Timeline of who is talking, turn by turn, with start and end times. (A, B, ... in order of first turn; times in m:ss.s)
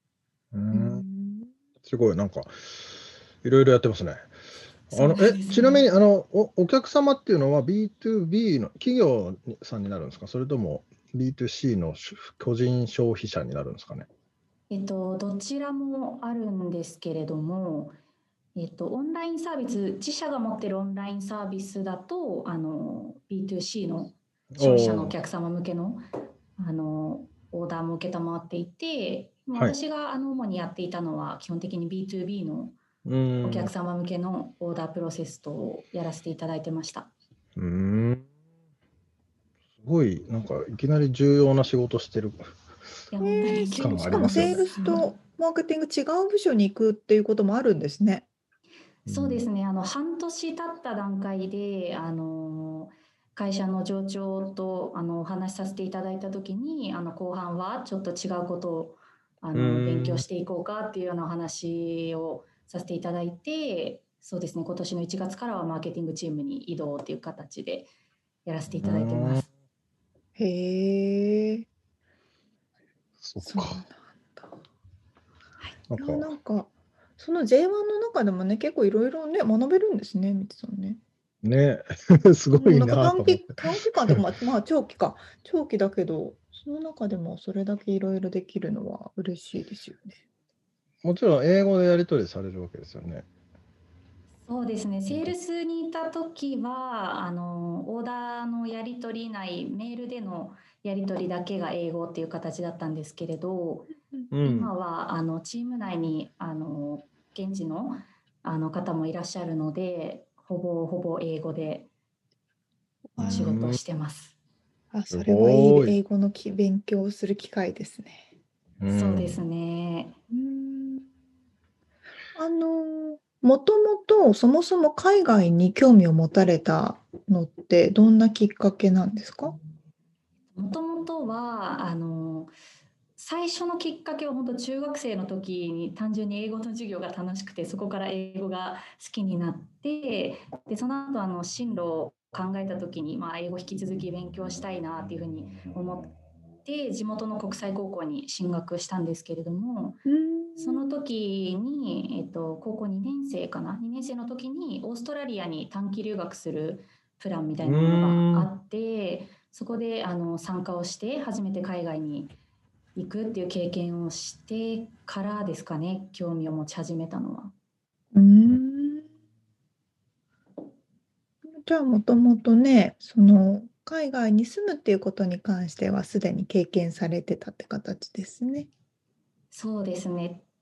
0:00.5-0:01.0 A
0:00.7-0:01.5 B
0:01.8-0:02.6 A
0:03.4-0:04.3 A
0:04.9-0:14.1 A
0:04.9-0:05.8 C
0:14.7-0:18.0 C
0:18.6-0:26.0 C
0:24.5-0:25.2 A
0:26.6-0:32.8 C
0:33.0-0:33.7 A
0:33.4-0:37.1 C
0:37.6-0:38.2 A
0:39.8-0:42.5 A
0:43.1-0:45.1 C
0:43.2-0:48.2 B
0:43.8-0:44.6 A
0:49.0-0:49.4 A
0:49.0-1:07.9 C
0:59.5-1:00.2 A
1:08.4-1:09.4 C
1:08.7-1:09.4 A
1:10.4-1:11.6 B
1:13.2-1:13.8 A
1:13.4-1:14.5 B
1:15.9-1:16.3 A
1:16.0-1:21.0 B
1:21.4-1:24.2 A
1:22.6-1:30.1 B
1:31.0-1:33.3 A
1:34.4-1:51.9 C
1:35.1-1:35.3 A
1:44.3-1:44.7 A
1:53.2-1:53.8 A
1:53.2-1:54.3 C
1:54.9-1:58.2 B
1:55.1-1:56.0 A
1:58.8-1:59.4 A
1:58.9-2:00.1 C
2:00.3-2:01.0 B
2:02.3-2:09.6 B
2:10.5-2:12.5 C
2:13.2-2:26.1 C
2:26.6-2:30.0 C
2:30.1-2:30.8 B
2:30.6-2:42.3 C
2:37.6-2:38.5 A
2:43.0-2:47.5 C
2:48.1-2:49.0 B
2:51.6-2:58.7 B
2:59.5-3:00.4 C